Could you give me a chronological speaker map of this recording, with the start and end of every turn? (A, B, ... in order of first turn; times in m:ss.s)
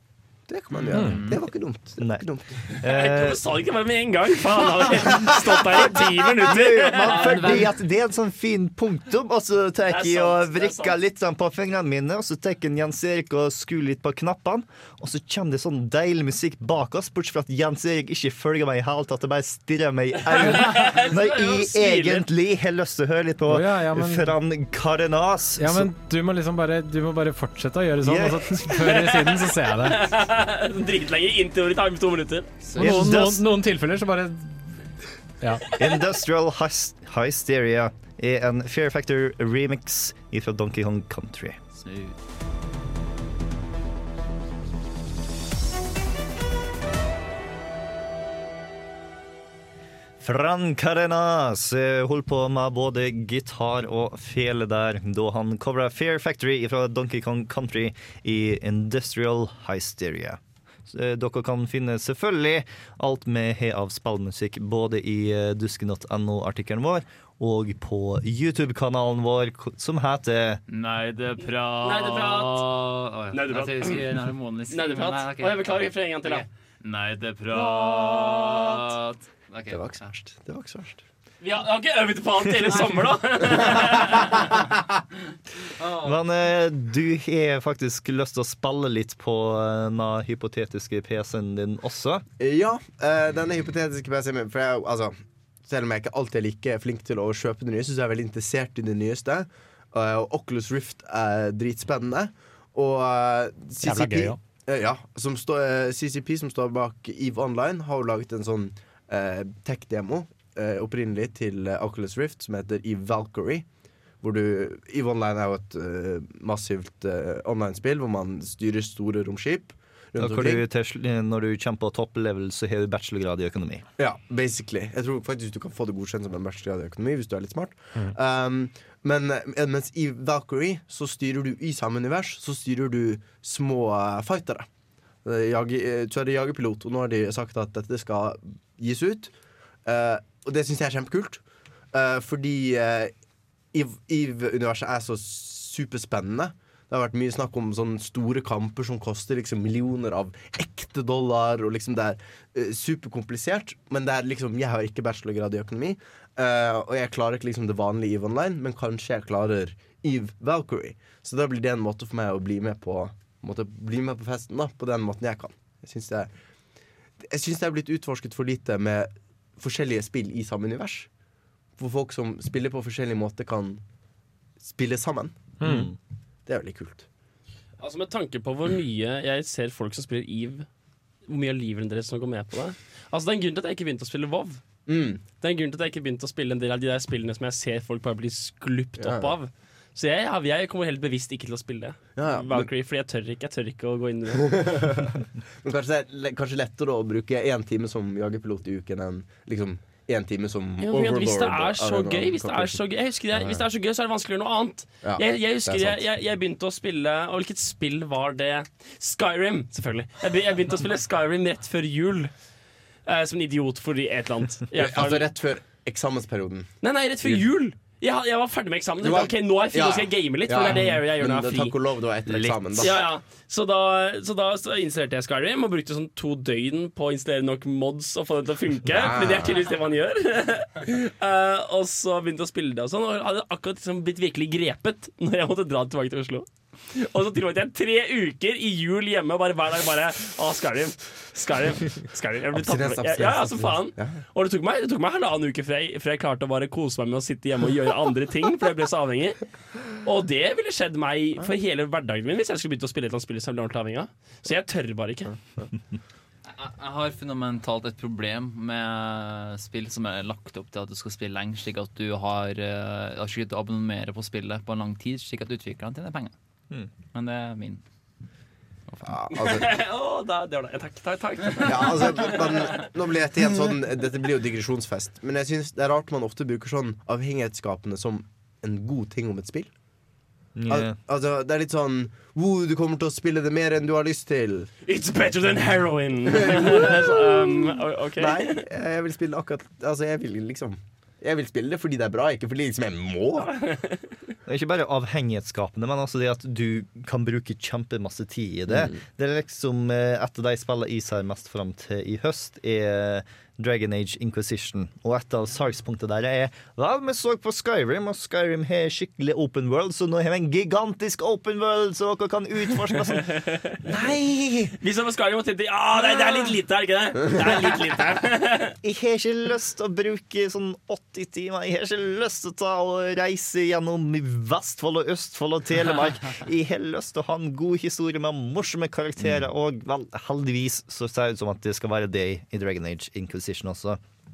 0:00.5-0:02.6 A
0:00.9-0:01.2 B
0:01.0-0:01.4 C
0:02.0-0:03.4 D
0:02.8-0:07.6 E
0:05.8-0:25.9 D
0:06.9-0:07.7 C
0:09.9-0:10.9 E
0:20.3-0:22.2 E
0:23.5-0:24.3 B
0:25.6-0:30.1 B
0:28.0-0:28.8 D
0:28.8-0:32.5 E
0:32.7-0:33.0 C
0:32.8-0:34.8 B
0:32.8-0:33.4 D
0:35.4-0:35.6 B
0:35.8-0:41.6 D
0:41.8-0:42.2 C
0:50.2-1:10.6 D
1:10.7-1:20.1 C
1:11.8-1:12.6 E
1:13.3-1:14.1 E
1:14.7-1:16.4 E
1:17.5-1:18.9 E
1:19.7-1:21.0 A
1:21.4-1:24.3 E
1:25.8-1:26.1 C
1:26.0-1:32.2 D
1:32.4-1:53.6 A
1:43.8-1:44.4 B
1:54.2-2:00.6 A
2:00.2-2:03.8 D
2:04.0-2:14.7 A
2:15.2-2:19.3 A
2:19.8-2:23.1 A
2:23.7-2:46.3 A
2:47.2-2:51.1 A
2:51.8-2:53.8 A
2:54.6-2:55.4 A
2:55.6-2:55.9 B
2:55.6-2:56.0 D
2:56.4-2:57.1 A
2:57.8-3:00.7 E
3:01.3-3:04.6 E
3:04.8-3:05.2 A
3:05.3-3:14.5 E
3:09.0-3:09.4 A
3:12.2-3:12.7 A
3:14.4-3:23.6 A
3:20.8-3:32.3 E
3:25.0-3:26.0 A
3:33.1-3:35.3 E
3:34.7-3:37.4 A
3:36.8-3:41.7 E
3:39.0-3:43.0 A
3:42.3-3:43.0 D
3:42.8-4:09.4 E
3:49.0-3:49.6 A
4:02.5-4:04.2 A
4:10.0-4:15.4 E
4:16.6-4:26.3 C
4:27.1-4:27.8 C
4:29.0-4:29.8 A
4:29.4-4:32.8 E
4:31.6-4:39.7 A
4:40.6-4:41.0 D
4:40.7-4:44.7 A
4:44.8-4:48.6 E
4:46.3-4:53.6 A
4:54.5-5:13.3 D
4:58.7-4:59.0 A
5:13.8-5:14.7 D
5:14.8-5:18.8 E
5:18.8-5:34.0 D